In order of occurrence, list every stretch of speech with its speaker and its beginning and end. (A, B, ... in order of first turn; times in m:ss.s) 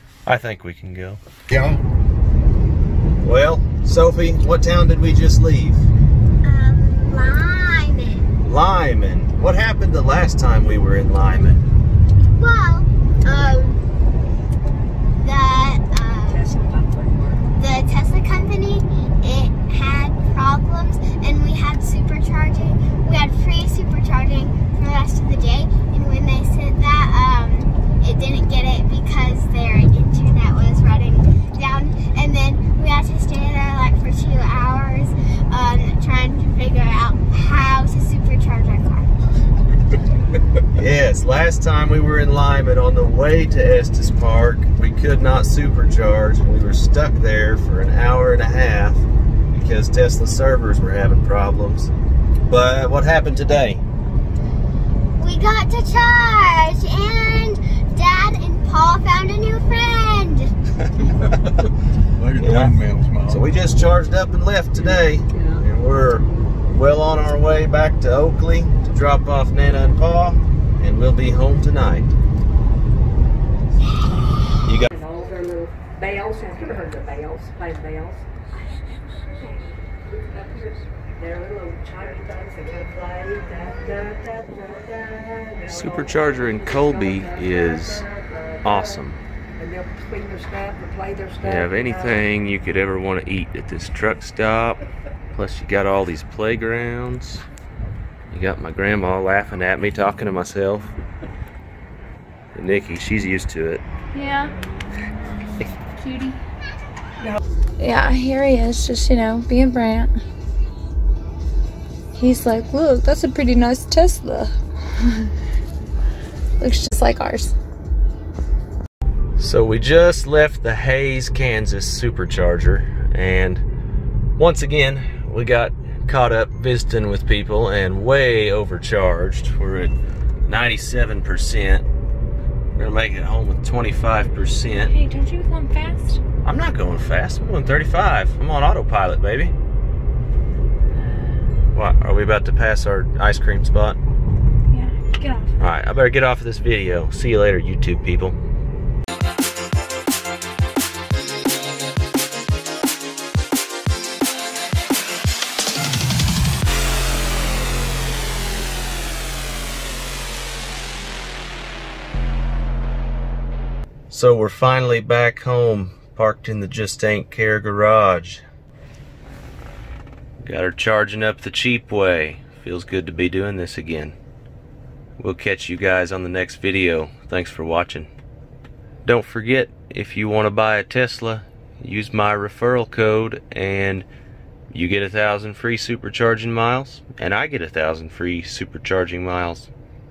0:00.2-0:01.2 A
0:01.5-0:01.8 B
0:03.2-0:05.9 A
0:06.4-0:08.3 C
0:08.4-0:11.6 A
0:12.4-0:13.8 C
0:15.2-0:16.5 C
0:16.3-0:17.3 D
0:17.6-0:39.2 C
0:40.7-0:51.9 A
0:52.5-0:53.8 A
0:55.2-1:00.5 C
1:01.0-1:03.5 B
1:02.4-1:12.1 A
1:14.6-1:14.9 A
1:15.0-1:18.2 D
1:19.2-1:19.6 D
1:20.4-1:20.7 D
1:21.2-1:25.9 D
1:25.7-1:28.1 A
1:26.9-1:27.2 D
1:28.6-1:29.2 A
1:29.6-1:32.0 D
1:31.4-1:34.8 A
1:35.3-1:37.4 A
1:38.3-1:40.9 A
1:42.5-1:43.8 A
1:44.1-1:44.6 E
1:46.0-1:46.4 E
1:47.8-1:50.1 E
1:52.2-1:55.3 E
1:56.6-1:57.5 E
1:59.4-2:03.6 A
2:04.4-2:11.8 A
2:12.8-2:14.9 A
2:14.8-2:16.2 E
2:16.4-2:19.5 A
2:21.0-2:21.5 E
2:21.7-2:24.0 A
2:24.7-2:25.5 E
2:25.6-2:28.4 A
2:44.1-2:48.4 A
2:50.4-2:54.2 A
2:55.2-2:58.1 A
2:59.0-3:04.1 A
3:04.7-3:09.7 A